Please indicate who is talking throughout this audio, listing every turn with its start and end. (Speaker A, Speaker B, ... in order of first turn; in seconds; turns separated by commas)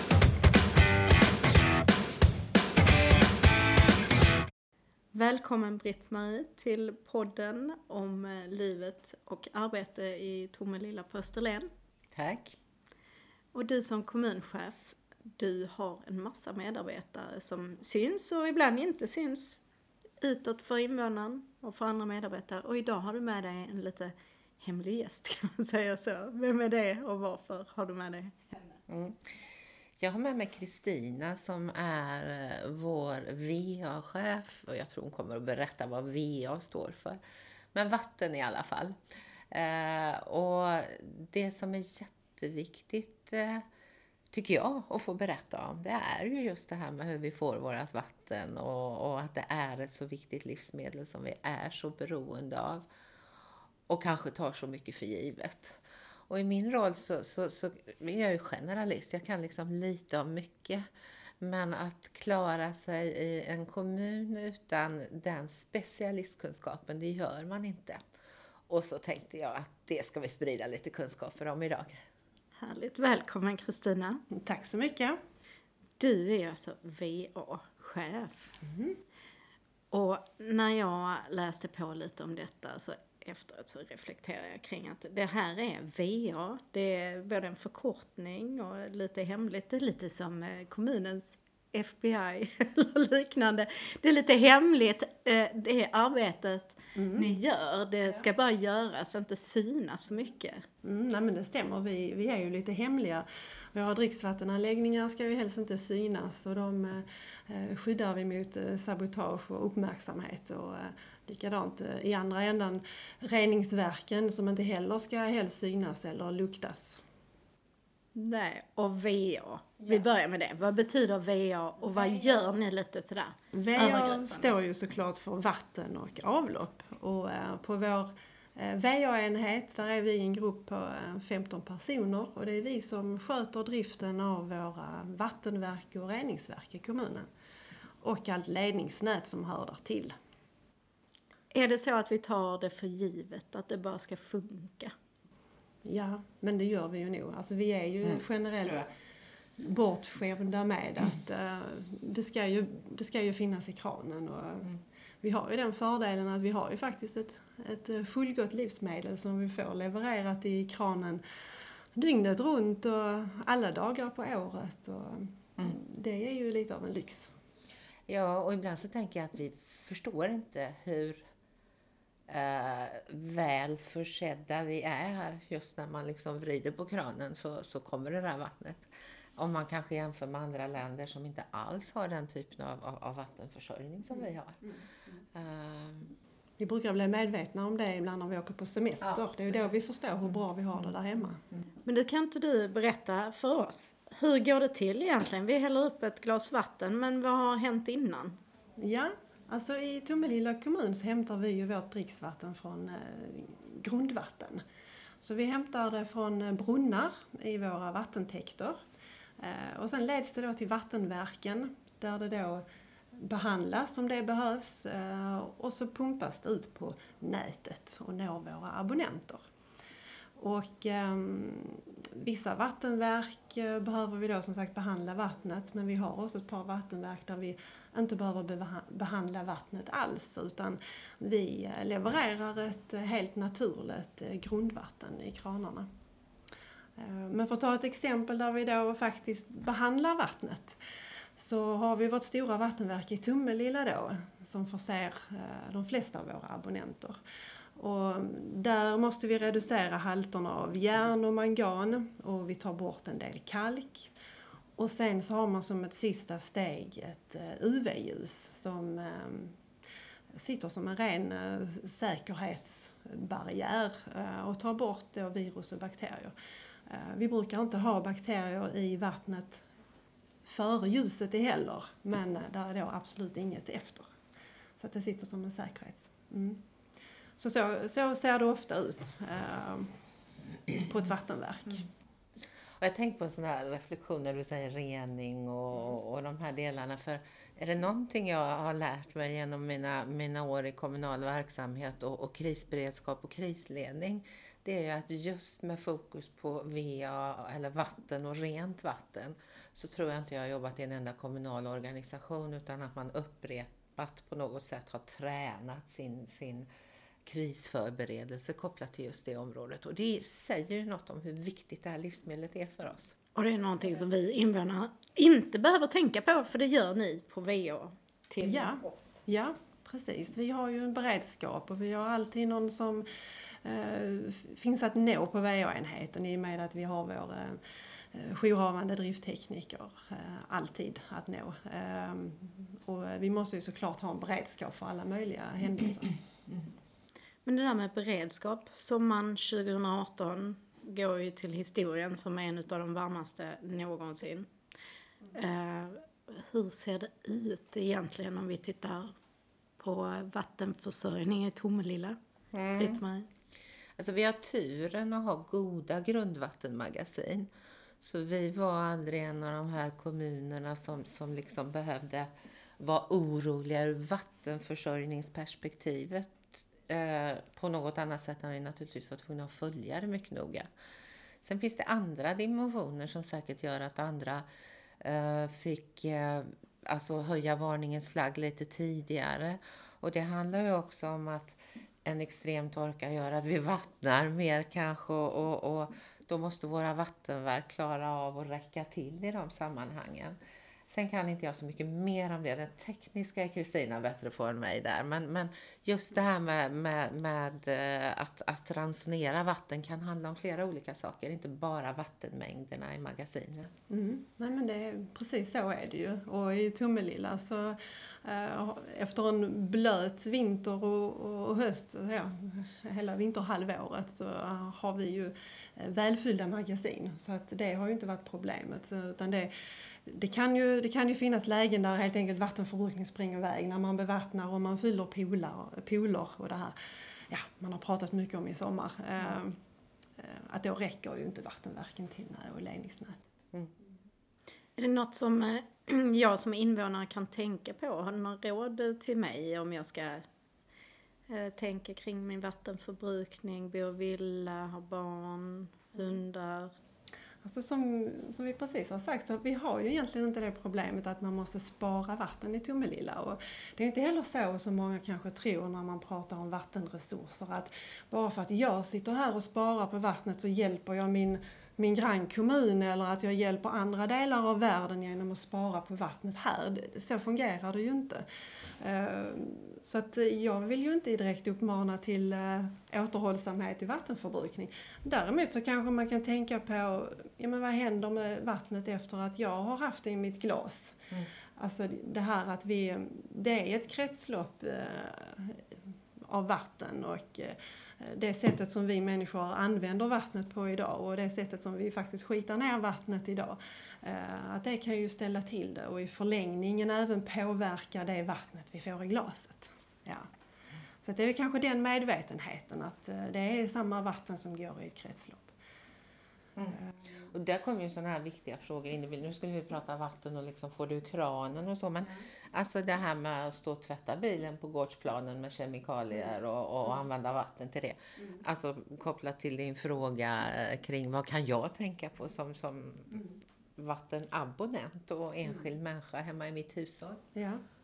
Speaker A: 5.1-11.7, Speaker B: 12.1-12.6, Speaker A: 13.5-19.6, Speaker A: 20.2-28.6, Speaker B: 28.9-29.2, Speaker B: 30.0-37.2, Speaker B: 37.7-39.0, Speaker B: 39.5-43.6, Speaker B: 44.3-52.8, Speaker B: 53.9-60.9, Speaker B: 61.4-68.0, Speaker B: 68.7-71.9, Speaker A: 72.6-74.2, Speaker C: 74.3-75.1, Speaker A: 76.0-78.5, Speaker C: 78.6-79.0, Speaker A: 79.9-100.6, Speaker C: 96.9-97.3, Speaker C: 100.8-117.0, Speaker A: 118.1-124.5, Speaker C: 119.8-120.0, Speaker C: 121.8-122.4, Speaker C: 123.5-137.3, Speaker C: 138.0-140.1, Speaker A: 141.5-144.9, Speaker C: 145.8-148.9, Speaker C: 149.6-161.2, Speaker C: 161.9-167.3, Speaker B: 168.1-171.2, Speaker B: 172.3-184.6, Speaker B: 185.3-186.1, Speaker C: 186.6-191.4, Speaker A: 191.8-198.4, Speaker C: 198.8-204.6, Speaker C: 205.2-208.8, Speaker C: 209.4-212.6, Speaker C: 213.2-219.4, Speaker C: 220.4-235.8, Speaker C: 237.0-240.8, Speaker C: 241.4-247.2, Speaker C: 247.8-254.1, Speaker C: 254.8-259.6, Speaker C: 260.3-266.3, Speaker C: 266.9-269.6, Speaker C: 270.4-274.1, Speaker C: 274.8-276.6, Speaker C: 277.4-279.9, Speaker C: 280.7-281.9, Speaker B: 282.8-306.7, Speaker B: 307.2-313.1, Speaker A: 313.3-319.2, Speaker C: 318.4-323.0, Speaker C: 323.6-327.6, Speaker C: 328.1-336.2, Speaker A: 337.4-344.5, Speaker A: 345.3-349.1, Speaker A: 349.8-352.2, Speaker B: 352.5-353.0, Speaker A: 352.7-353.3, Speaker B: 354.0-357.5, Speaker B: 358.0-370.7, Speaker B: 371.4-374.4, Speaker B: 375.0-390.4, Speaker B: 390.9-403.7, Speaker C: 403.9-419.5, Speaker C: 420.1-426.7, Speaker C: 427.3-429.5, Speaker C: 430.2-433.2, Speaker A: 434.8-440.2, Speaker A: 441.3-446.7, Speaker C: 447.4-468.2, Speaker C: 468.8-481.0, Speaker C: 481.6-485.6, Speaker C: 486.2-500.3, Speaker C: 501.0-505.5, Speaker C: 506.7-507.1, Speaker B: 507.3-527.2